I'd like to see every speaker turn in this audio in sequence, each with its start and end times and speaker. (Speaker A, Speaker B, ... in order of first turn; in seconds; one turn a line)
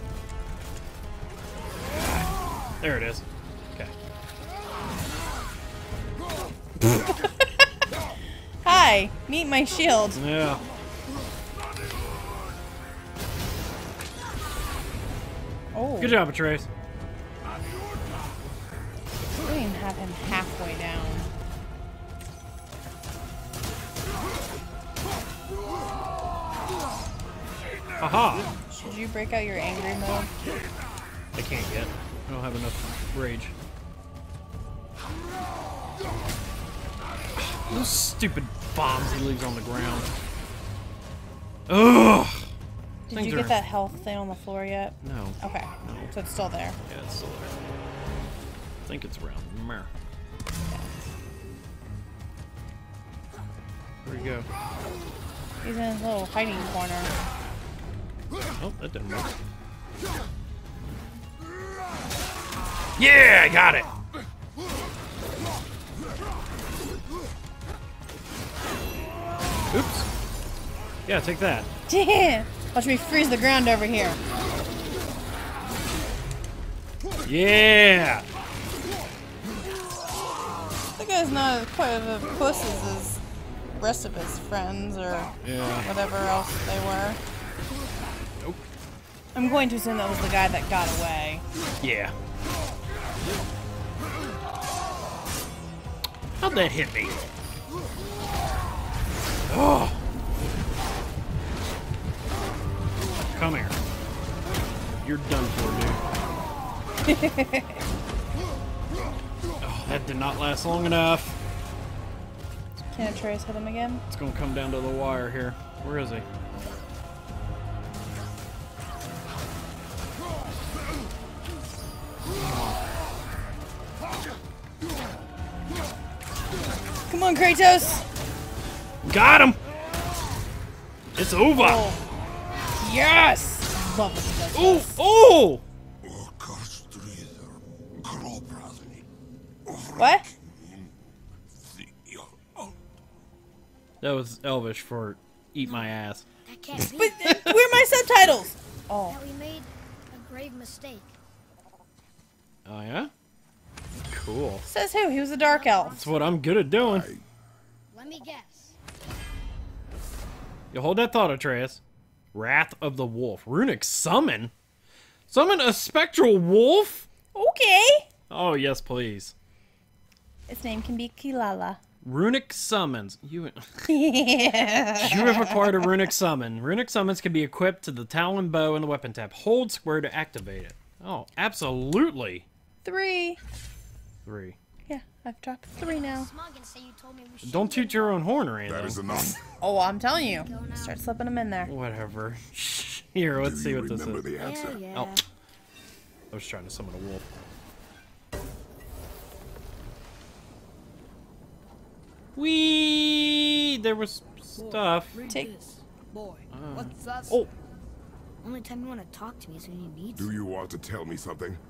Speaker A: 2.8-3.9
Speaker B: 7.1-7.6
Speaker B: 8.6-10.2
Speaker A: 10.1-10.6
Speaker B: 15.7-16.2
Speaker A: 16.0-16.7
Speaker B: 19.4-21.3
Speaker A: 28.0-28.5
Speaker B: 28.7-30.3
Speaker A: 31.3-33.5
Speaker A: 37.4-40.1
Speaker A: 41.7-42.5
Speaker B: 43.1-46.8
Speaker A: 43.1-43.6
Speaker A: 45.0-46.1
Speaker A: 46.9-47.5
Speaker A: 48.9-49.9
Speaker A: 54.0-54.5
Speaker B: 55.6-57.1
Speaker A: 58.6-59.3
Speaker A: 63.0-63.9
Speaker A: 69.7-70.1
Speaker A: 71.0-71.7
Speaker B: 71.9-74.2
Speaker A: 77.2-78.2
Speaker B: 81.0-83.2
Speaker B: 83.8-87.2
Speaker A: 85.4-85.9
Speaker B: 89.3-91.4
Speaker A: 91.8-92.1
Speaker A: 96.4-97.2
Speaker A: 99.5-100.0
Speaker A: 103.3-103.8
Speaker A: 105.0-106.0
Speaker B: 107.1-107.8
Speaker A: 109.6-111.4
Speaker B: 112.9-114.0
Speaker A: 114.1-116.2
Speaker A: 122.4-122.8
Speaker B: 127.1-128.0
Speaker A: 129.0-129.6
Speaker A: 131.2-131.8
Speaker B: 131.5-132.0
Speaker B: 132.8-135.0
Speaker A: 134.5-135.6
Speaker C: 136.0-139.1
Speaker C: 139.7-140.9
Speaker B: 140.0-140.2
Speaker C: 141.6-142.7
Speaker A: 144.0-146.2
Speaker D: 145.6-145.9
Speaker D: 146.4-147.4
Speaker B: 146.9-149.2
Speaker A: 147.2-147.7
Speaker D: 149.1-151.2
Speaker A: 152.6-153.1
Speaker A: 154.1-154.6
Speaker B: 154.6-156.0
Speaker D: 155.3-156.4
Speaker A: 155.9-157.1
Speaker C: 156.8-157.2
Speaker D: 157.9-158.8
Speaker A: 160.7-161.8
Speaker A: 162.3-164.5
Speaker A: 165.3-167.1
Speaker B: 167.3-168.1
Speaker A: 168.3-169.3
Speaker B: 170.5-171.8
Speaker A: 172.0-173.9
Speaker B: 173.9-175.9
Speaker A: 175.0-182.4
Speaker B: 182.8-183.4
Speaker A: 184.2-184.6
Speaker B: 184.9-186.3
Speaker D: 185.8-188.2
Speaker A: 187.4-189.0
Speaker C: 188.7-189.4
Speaker B: 189.6-191.7
Speaker D: 190.1-191.0
Speaker A: 191.7-194.2
Speaker C: 193.3-194.8
Speaker D: 194.4-195.2
Speaker A: 194.9-195.2
Speaker A: 196.3-197.2
Speaker A: 202.3-205.2
Speaker D: 204.6-207.4
Speaker A: 206.5-206.9
Speaker D: 208.4-210.3
Speaker C: 210.1-211.6